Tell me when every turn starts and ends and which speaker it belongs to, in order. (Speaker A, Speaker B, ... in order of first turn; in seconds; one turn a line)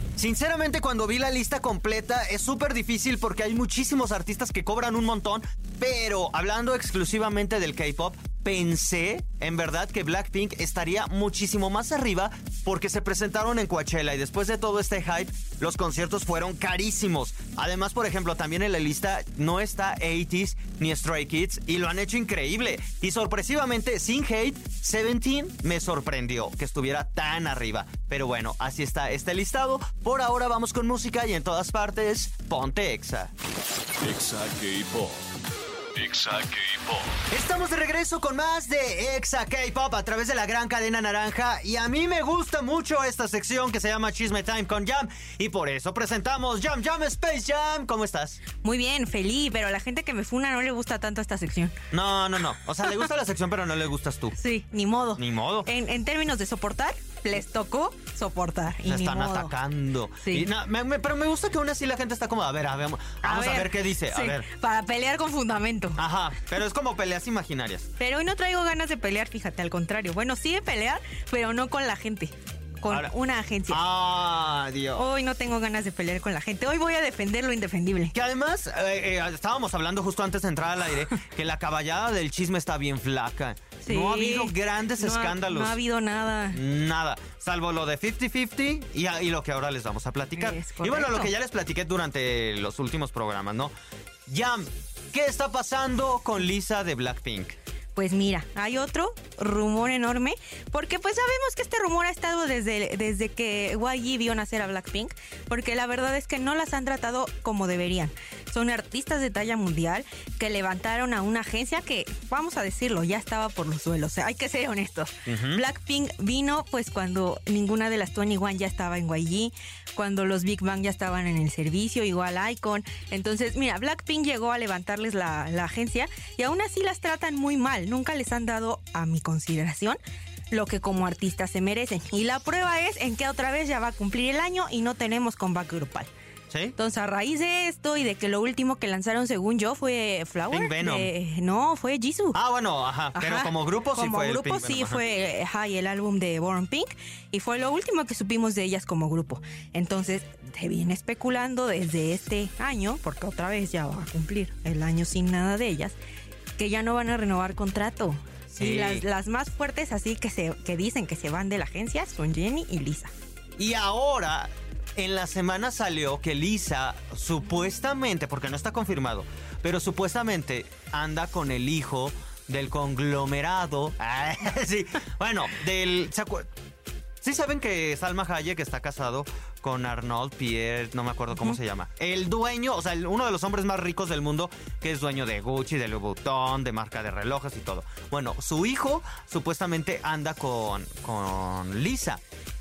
Speaker A: 0.2-33.3
Speaker B: 34.0-35.2
Speaker B: 35.9-37.1
Speaker A: 37.3-48.4
Speaker C: 48.6-51.7
Speaker A: 51.9-54.4
Speaker C: 54.4-59.5
Speaker A: 55.2-55.7
Speaker A: 58.9-64.5
Speaker C: 60.2-60.5
Speaker C: 63.2-66.0
Speaker A: 66.0-67.9
Speaker C: 68.0-73.8
Speaker A: 73.7-75.0
Speaker C: 74.9-78.1
Speaker A: 78.1-85.8
Speaker C: 83.8-86.6
Speaker A: 86.5-93.7
Speaker C: 90.3-91.3
Speaker A: 94.3-97.5
Speaker C: 97.9-130.0
Speaker A: 115.3-115.6
Speaker C: 130.5-136.1
Speaker A: 136.5-136.7
Speaker C: 136.8-142.4
Speaker A: 140.5-141.1
Speaker A: 142.3-145.0
Speaker C: 143.1-156.0
Speaker C: 156.6-163.1
Speaker A: 158.5-159.0
Speaker A: 163.6-176.5
Speaker A: 177.2-192.2